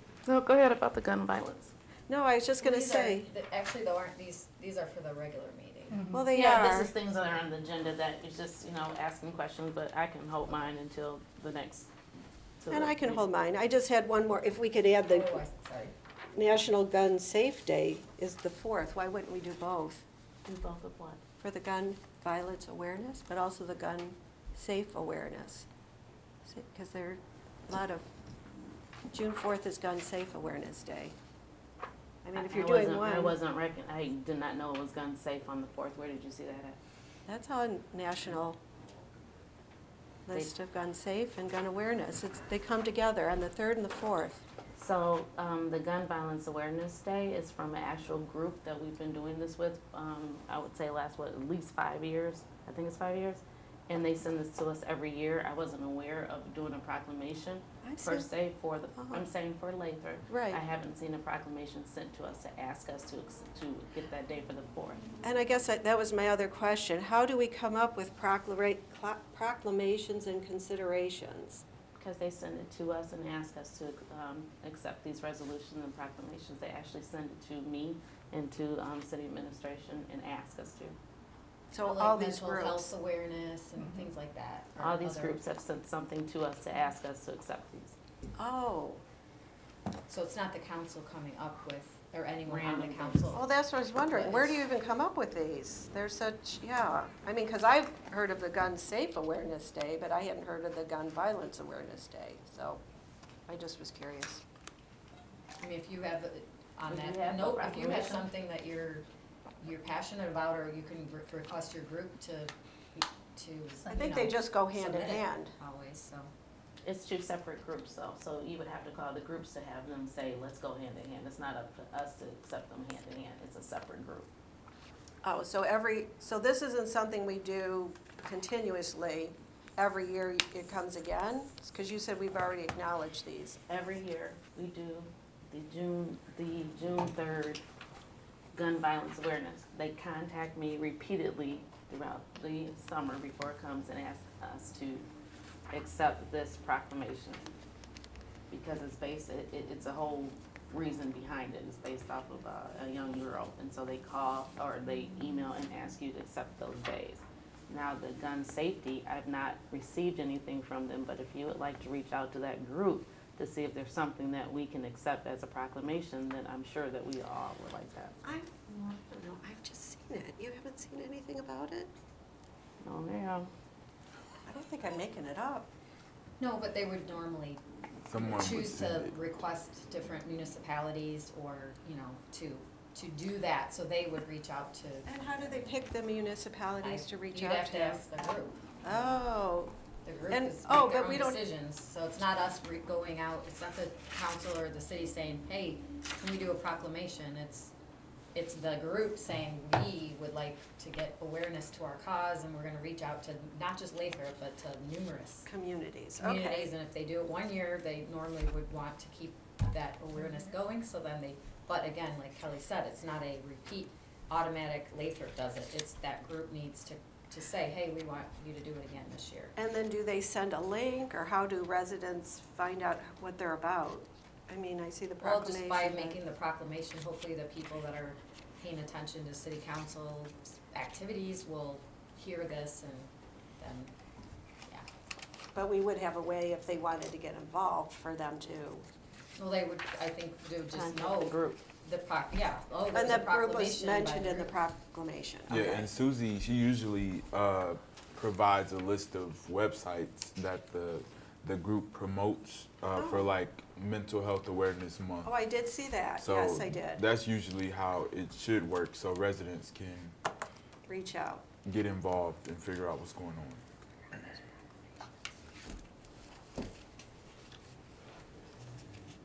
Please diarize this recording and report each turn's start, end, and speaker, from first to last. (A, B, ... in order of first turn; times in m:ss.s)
0:00.2-0:01.7 A
0:02.1-0:03.3 B
0:02.6-0:06.1 C
0:06.0-0:11.9 A
0:06.1-0:06.9 B
0:12.6-0:13.2 A
0:12.7-0:15.4 B
0:15.1-0:15.9 C
0:16.3-0:20.0 B
0:20.4-0:21.2 A
0:21.4-0:25.7 B
0:26.4-0:28.1 B
0:29.1-0:31.2 B
0:32.2-0:33.4 B
0:32.4-0:36.8 A
0:37.3-0:38.6 B
0:40.3-0:44.4 B
0:44.8-1:05.0 A
0:57.8-0:58.3 B
0:59.0-0:59.3 B
1:00.3-1:00.6 B
1:05.2-1:11.6 B
1:12.0-1:21.0 A
1:21.7-1:22.9 B
1:21.8-1:25.4 C
1:24.8-1:28.0 A
1:28.4-1:29.0 B
1:30.1-1:33.4 C
1:32.4-1:33.3 A
1:33.3-1:42.8 B
1:34.1-1:34.5 C
1:43.5-1:44.4 B
1:45.6-1:49.0 C
1:46.9-1:48.3 A
1:49.6-1:56.3 C
1:53.9-1:55.6 B
1:56.8-2:04.3 A
2:05.2-2:13.6 B
2:13.7-2:17.6 A
2:18.5-2:25.1 A
2:25.7-2:27.5 A
2:28.5-2:48.2 A
2:48.2-2:51.9 B
2:52.8-2:53.5 A
2:54.4-2:55.7 B
2:56.4-2:57.6 C
2:58.0-2:59.1 D
2:58.2-3:05.1 C
3:05.0-3:08.0 B
3:06.8-3:09.2 C
3:08.8-3:09.7 B
3:10.0-3:17.7 C
3:10.3-3:11.4 B
3:18.3-3:25.5 C
3:25.4-3:26.7 B
3:26.2-3:39.5 C
3:39.6-3:46.2 B
3:45.2-3:53.9 C
3:55.5-3:58.9 B
3:59.4-4:04.6 C
4:00.7-4:01.6 A
4:02.9-4:05.9 B
4:05.5-4:15.3 D
4:12.9-4:13.3 B
4:15.2-4:17.0 B
4:16.2-4:20.1 D
4:20.9-4:21.4 B
4:21.6-4:24.4 D